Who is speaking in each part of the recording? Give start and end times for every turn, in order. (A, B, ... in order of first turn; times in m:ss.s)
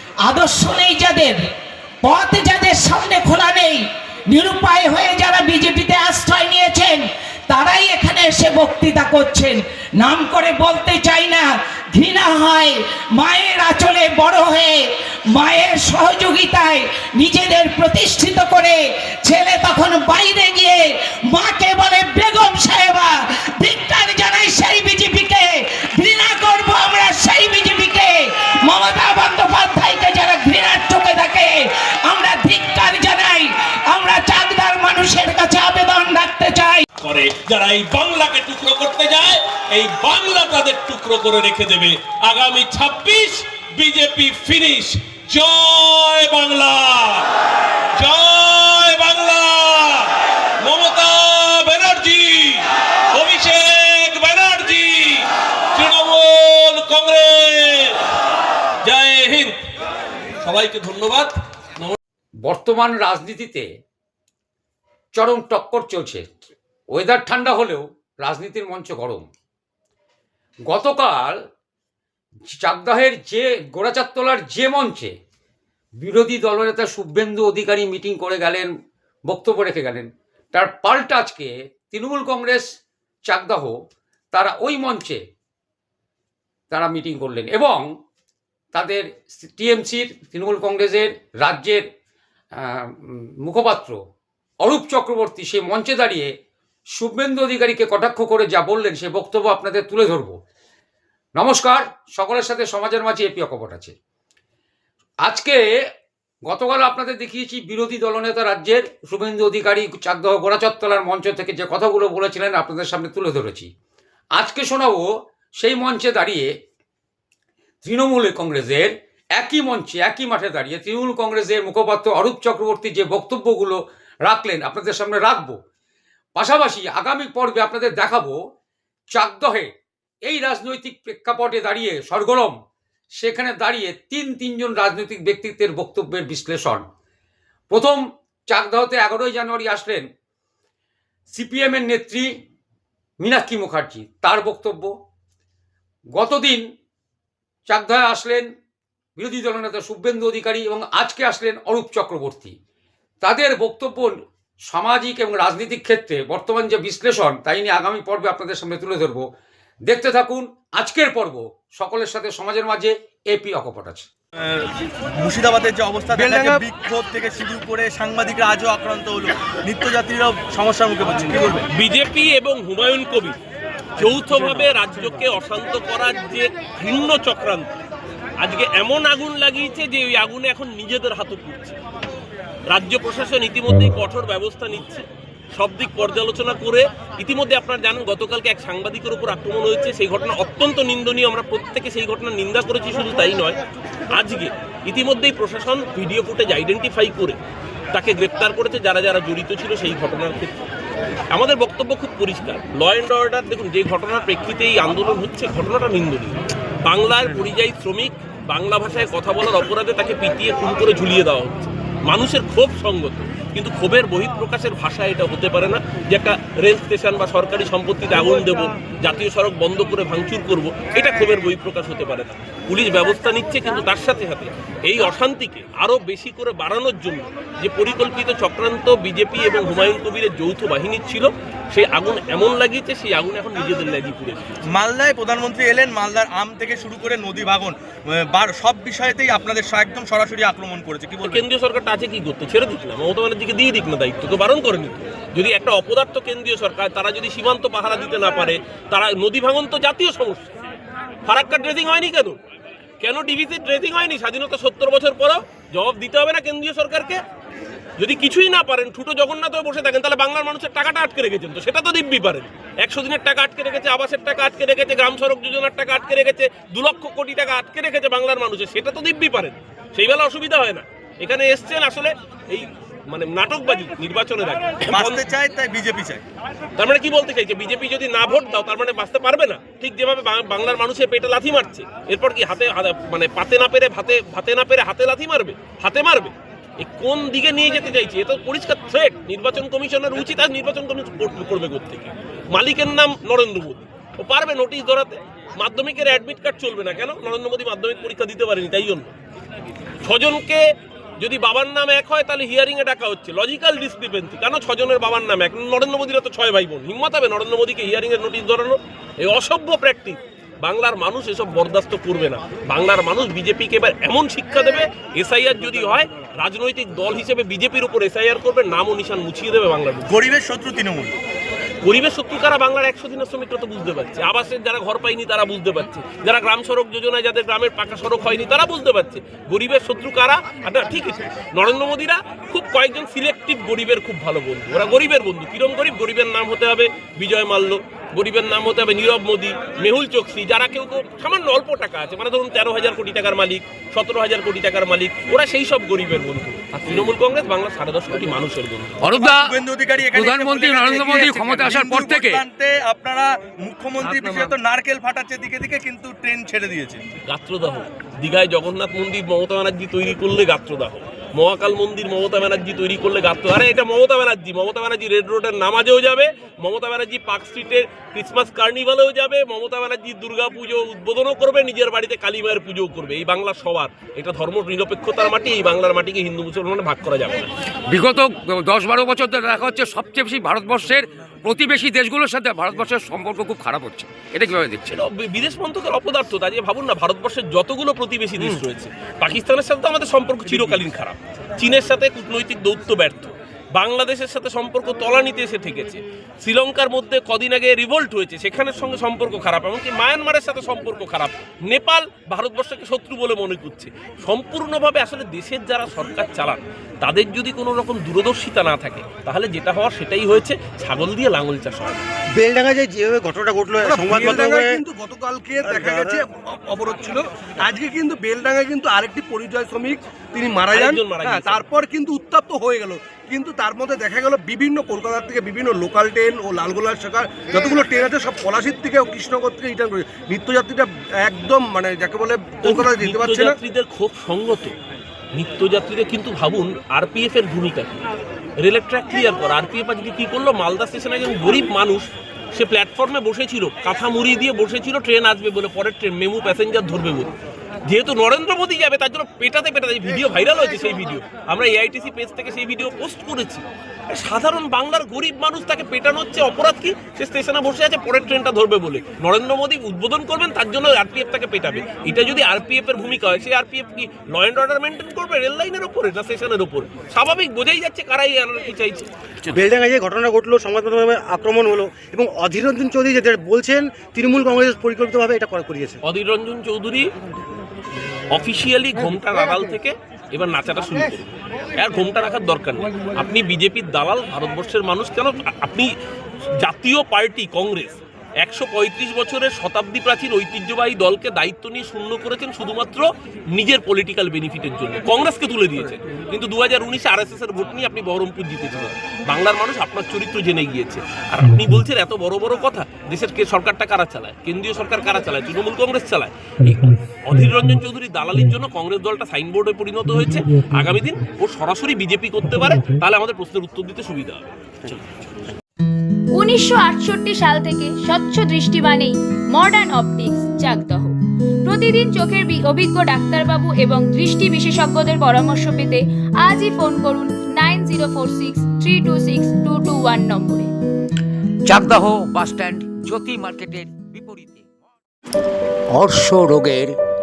0:00.2-0:01.4 A
0:02.0-0:36.8 A
0:37.0-0:47.3 B
0:48.0-0:58.0 B
0:58.8-0:59.6 B
1:00.4-1:02.0 B
1:02.4-1:03.7 C
1:05.2-1:06.2 C
1:06.9-1:09.3 C
1:10.7-1:11.4 C
1:12.5-1:15.1 C
1:16.0-1:18.7 C
1:19.3-1:22.7 C
1:23.3-1:23.8 C
1:24.3-1:25.2 C
1:26.7-1:27.9 C
1:28.7-1:31.8 C
1:32.6-1:34.0 C
1:34.6-1:36.3 C
1:37.0-1:40.4 C
1:41.4-1:43.9 C
1:45.2-1:45.7 C
1:46.5-1:53.7 C
1:54.4-1:56.5 C
1:57.8-2:05.6 C
2:06.4-2:08.4 C
2:09.1-2:09.7 C
2:10.3-2:12.6 C
2:13.2-2:16.8 C
2:17.7-2:20.1 C
2:21.3-2:22.3 C
2:23.2-2:24.9 C
2:26.1-2:26.6 C
2:27.7-2:28.5 C
2:29.2-2:32.6 C
2:33.2-2:34.2 C
2:34.7-2:39.3 C
2:39.9-2:44.0 C
2:45.2-2:51.6 D
2:46.1-2:46.6 E
2:51.7-2:53.4 B
2:54.0-2:57.7 B
2:58.4-3:01.8 B
3:02.7-3:13.6 B
3:14.1-3:17.4 B
3:17.9-3:20.6 B
3:21.3-3:54.6 B
3:54.7-3:57.8 D
3:58.3-4:01.4 D
4:01.2-4:10.5 B
4:11.2-4:12.4 B
4:13.0-4:17.2 B
4:18.0-4:35.2 B
4:34.9-4:36.2 D
4:36.8-4:59.1 B
5:00.0-5:00.6 B
5:01.2-5:20.2 B
5:20.1-5:21.1 D
5:21.8-5:49.0 B
5:49.0-5:49.5 C
5:49.2-5:57.0 D
5:50.0-5:52.4 C
5:54.0-5:54.5 B
5:57.3-6:17.5 B
6:17.9-6:25.0 C
6:24.9-6:52.0 B
6:52.4-6:54.8 F
6:53.8-7:13.6 E
6:55.6-6:56.2 F
7:00.7-7:01.6 B
7:12.6-7:14.7 B
7:15.3-7:27.3 B
7:27.9-7:49.5 B
7:49.5-7:56.0 F
7:56.0-7:57.1 B
7:58.3-8:05.9 B
8:06.6-8:35.0 B
8:36.4-8:50.7 G
8:51.6-8:54.7 C
8:55.9-8:56.9 C